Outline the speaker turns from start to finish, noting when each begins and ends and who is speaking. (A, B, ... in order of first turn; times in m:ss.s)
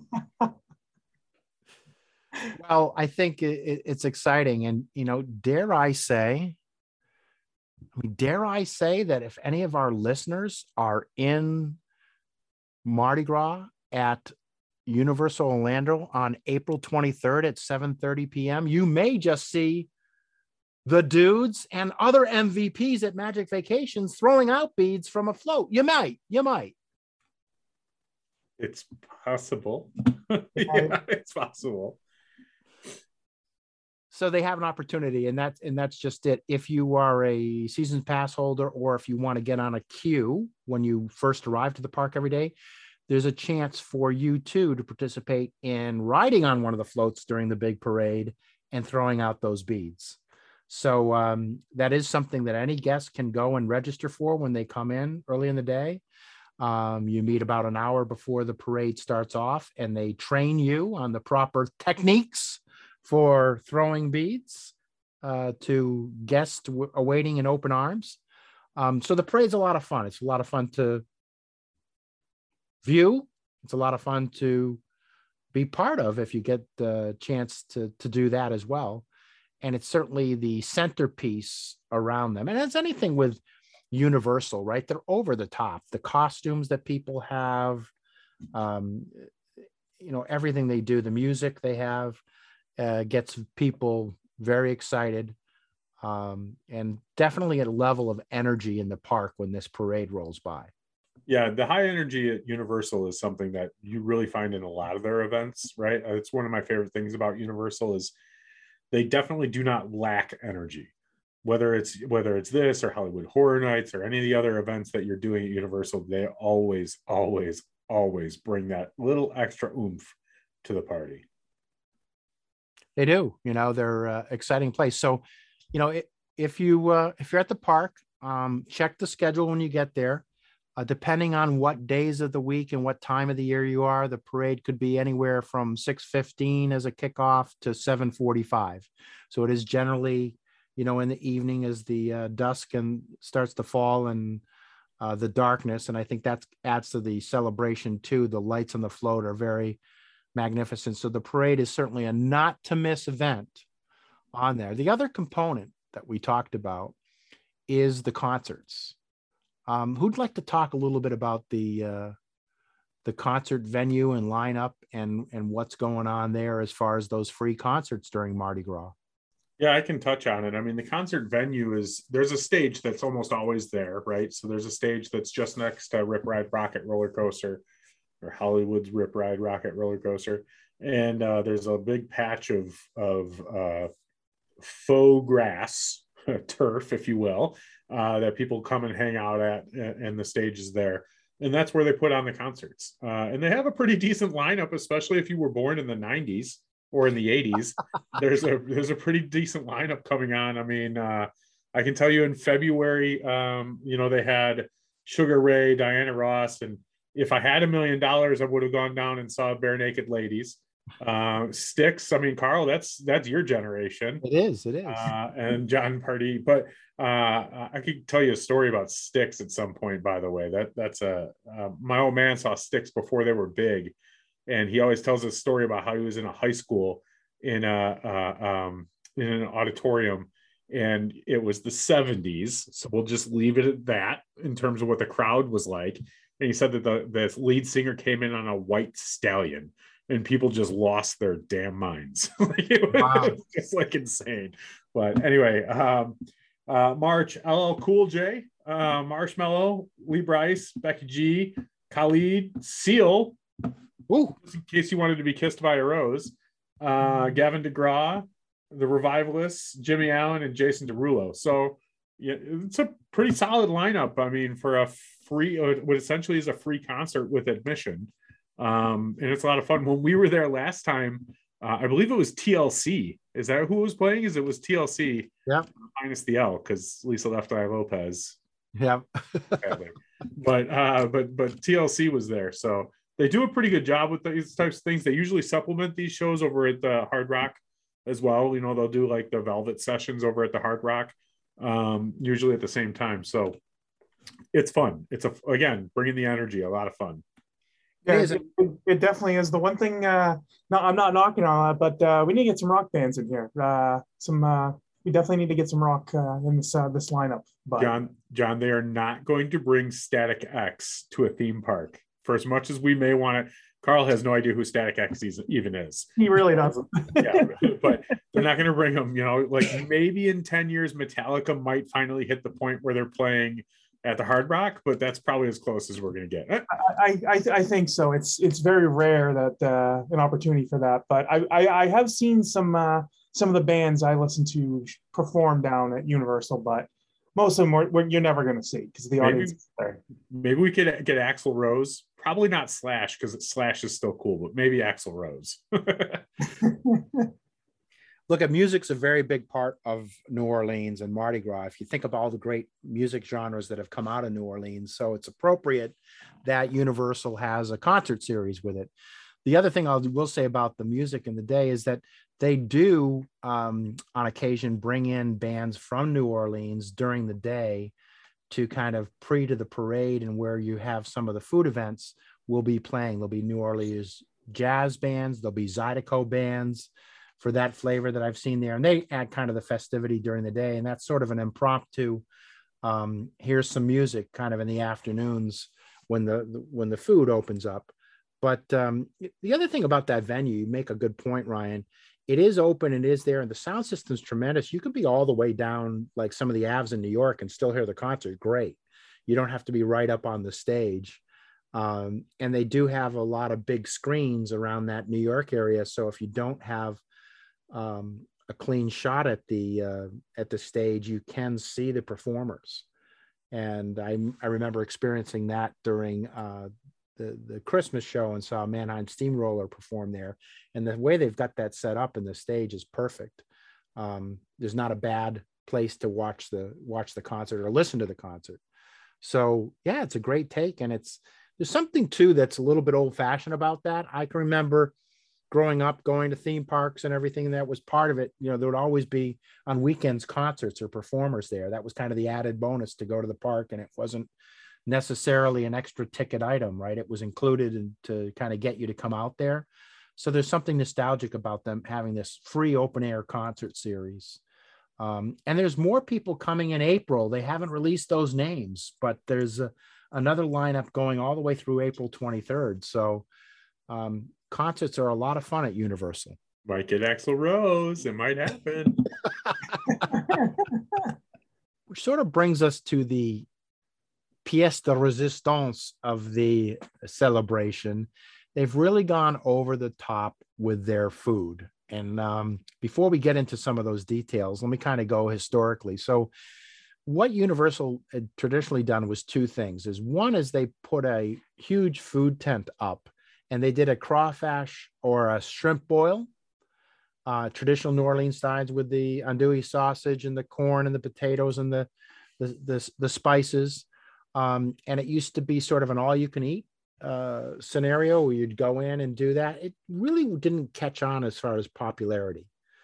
0:02.6-0:06.6 A
0:07.9-0:11.8 A
0:12.8-0:14.3 A
0:14.8-0:19.9 A
0:20.8-0:26.7 A
0:28.6-0:32.0 B
0:30.6-0:31.0 C
0:34.1-0:42.5 A
0:43.1-0:50.2 A
0:50.7-0:56.0 A
0:56.6-1:08.2 A
1:08.8-1:11.0 A
1:12.8-1:14.8 A
1:15.5-1:19.0 A
1:19.6-1:23.4 A
1:23.9-1:27.9 A
1:28.5-1:29.3 A
1:30.0-1:32.2 A
1:32.8-1:35.4 A
1:36.0-1:40.7 A
1:41.3-1:48.1 B
1:48.9-1:50.9 B
1:51.4-2:00.1 B
2:00.6-2:01.2 B
2:03.0-2:10.2 A
2:10.8-2:24.4 A
2:25.0-2:29.8 A
2:30.3-2:33.6 A
2:34.3-2:36.9 A
2:37.7-2:38.9 A
2:39.7-2:42.1 A
2:43.0-2:48.9 A
2:49.6-2:57.6 B
2:58.2-3:03.9 B
3:04.6-3:34.2 B
3:34.2-3:35.1 A
3:34.8-3:43.9 B
3:44.5-4:13.4 B
4:02.9-4:03.4 A
4:14.1-4:14.4 A
4:14.4-4:35.3 B
4:35.9-4:38.4 B
4:38.8-4:39.7 A
4:39.6-4:53.6 B
4:54.5-4:57.2 B
4:58.0-5:07.9 C
4:58.1-4:58.4 A
5:07.8-5:26.7 B
5:16.2-5:17.7 C
5:26.7-5:40.0 C
5:39.2-5:39.5 B
5:40.3-5:46.3 B
5:46.6-5:47.3 C
5:48.3-5:58.9 A
5:59.4-6:07.9 A
6:08.5-6:22.2 A
6:22.8-6:41.2 A
6:41.7-6:47.0 A
6:47.7-6:52.8 A
6:53.5-7:03.4 A
7:04.0-7:08.6 A
7:09.2-7:14.9 A
7:15.5-7:24.3 A
7:24.8-7:34.4 A
7:35.0-7:43.3 A
7:43.9-7:46.4 A
7:46.6-7:49.1 B
7:51.9-7:53.5 A
7:54.4-8:06.3 A
8:07.0-8:16.3 A
8:17.2-8:21.9 A
8:22.4-8:32.5 A